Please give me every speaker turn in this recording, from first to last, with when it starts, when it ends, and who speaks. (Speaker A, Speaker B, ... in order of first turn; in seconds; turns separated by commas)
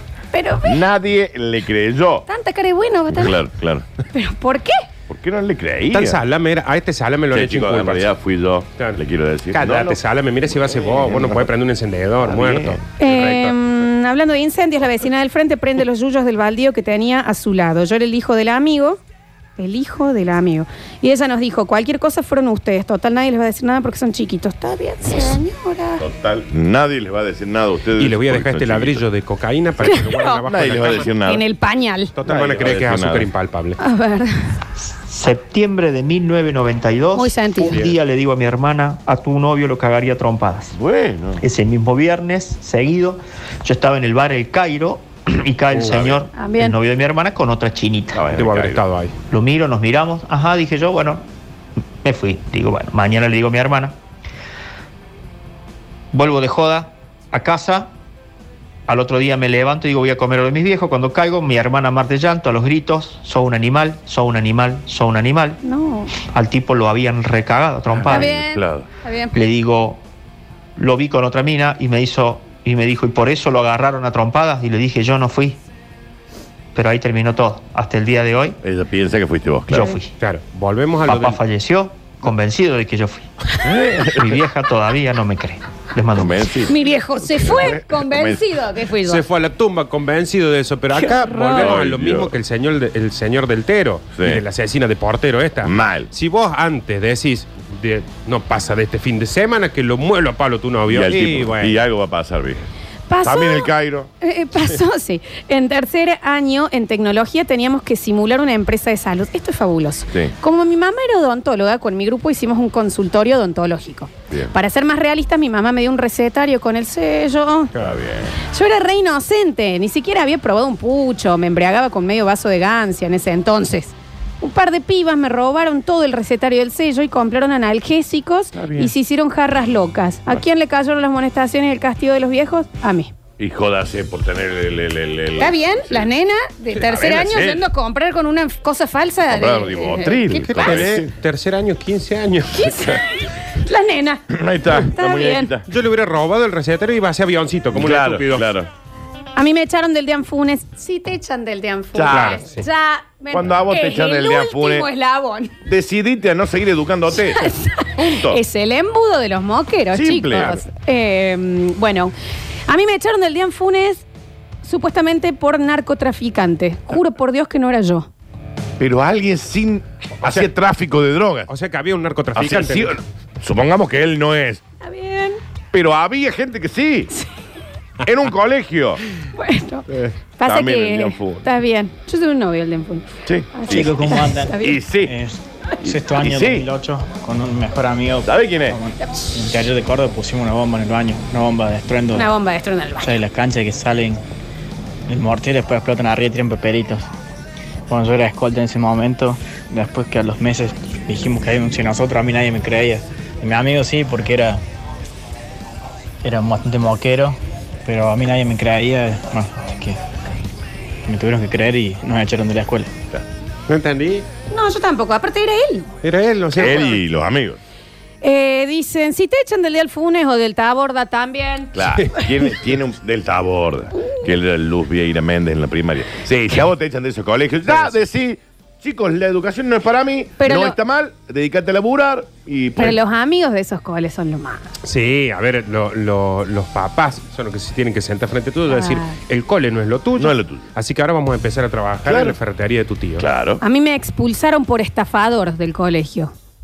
Speaker A: 0.3-0.8, Speaker B: 0.6-2.2, Speaker A: 2.3-3.4, Speaker B: 3.1-3.8, Speaker A: 4.1-4.8, Speaker B: 5.1-6.2, Speaker C: 5.9-8.1, Speaker B: 7.3-11.5, Speaker C: 8.8-13.6, Speaker B: 12.2-12.8, Speaker A: 13.0-19.0, Speaker A: 19.6-26.0, Speaker B: 26.0-29.1, Speaker C: 28.0-31.1, Speaker A: 29.8-30.4, Speaker B: 30.4-31.4, Speaker A: 31.2-32.1, Speaker C: 32.1-33.8, Speaker B: 32.2-33.3, Speaker A: 33.8-34.6, Speaker D: 35.1-40.7, Speaker A: 37.1-37.8, Speaker C: 37.6-37.9, Speaker B: 40.7-41.4, Speaker D: 41.4-48.2, Speaker B: 45.8-46.2, Speaker A: 46.3-46.8, Speaker B: 48.1-48.8, Speaker C: 48.3-49.1, Speaker D: 49.3-51.2, Speaker D: 52.0-53.9, Speaker D: 56.1-57.9, Speaker D: 58.9-65.6, Speaker A: 65.6-66.1, Speaker D: 66.3-68.3, Speaker B: 67.9-68.9, Speaker A: 68.1-69.3, Speaker D: 69.3-70.0, Speaker D: 70.8-75.6, Speaker D: 76.7-78.6, Speaker B: 78.6-80.0, Speaker D: 79.7-80.1, Speaker C: 80.2-81.4, Speaker D: 81.0-83.3, Speaker B: 83.6-84.3, Speaker D: 84.0-86.6, Speaker B: 86.1-88.4, Speaker A: 86.7-89.2, Speaker C: 89.1-101.8, Speaker A: 90.9-91.8, Speaker B: 91.5-92.3, Speaker B: 94.1-94.4, Speaker B: 95.6-96.1, Speaker B: 100.9-102.7, Speaker A: 103.1-117.7, Speaker B: 103.2-104.1, Speaker B: 117.8-118.3, Speaker A: 118.5-133.1, Speaker B: 128.5-128.9, Speaker B: 133.4-136.1, Speaker A: 135.4-140.8, Speaker C: 136.7-137.3, Speaker B: 137.1-137.6, Speaker B: 139.3-141.1, Speaker C: 140.3-142.7, Speaker A: 142.5-145.5, Speaker B: 144.3-145.6, Speaker C: 145.7-148.6, Speaker B: 147.7-148.7, Speaker A: 149.3-155.5, Speaker B: 151.9-152.4, Speaker C: 152.1-152.6, Speaker B: 153.3-154.9, Speaker B: 155.7-158.4, Speaker A: 157.1-162.1, Speaker B: 159.9-160.6, Speaker A: 162.7-164.0, Speaker A: 164.6-168.1, Speaker B: 168.8-171.5, Speaker C: 170.2-170.5, Speaker C: 171.5-172.9, Speaker B: 172.3-174.6, Speaker A: 174.8-175.4, Speaker B: 175.7-177.1, Speaker B: 178.1-179.0, Speaker A: 179.3-184.8, Speaker B: 179.9-181.5, Speaker B: 183.2-185.2, Speaker E: 183.7-192.3, Speaker B: 185.8-186.7, Speaker B: 188.2-188.8, Speaker A: 192.1-193.1, Speaker E: 193.0-194.2, Speaker E: 195.1-197.1, Speaker E: 197.9-204.6, Speaker E: 206.2-210.0, Speaker E: 211.0-212.9, Speaker C: 213.7-214.2, Speaker A: 214.5-215.9, Speaker C: 216.0-217.0, Speaker B: 216.5-217.6, Speaker A: 218.2-221.7, Speaker B: 221.7-233.0, Speaker C: 227.7-228.0, Speaker A: 230.4-230.8, Speaker A: 232.8-234.6, Speaker C: 234.8-243.2, Speaker A: 238.7-239.2, Speaker B: 240.2-240.7, Speaker B: 242.0-242.3, Speaker B: 243.2-243.6, Speaker A: 243.6-246.3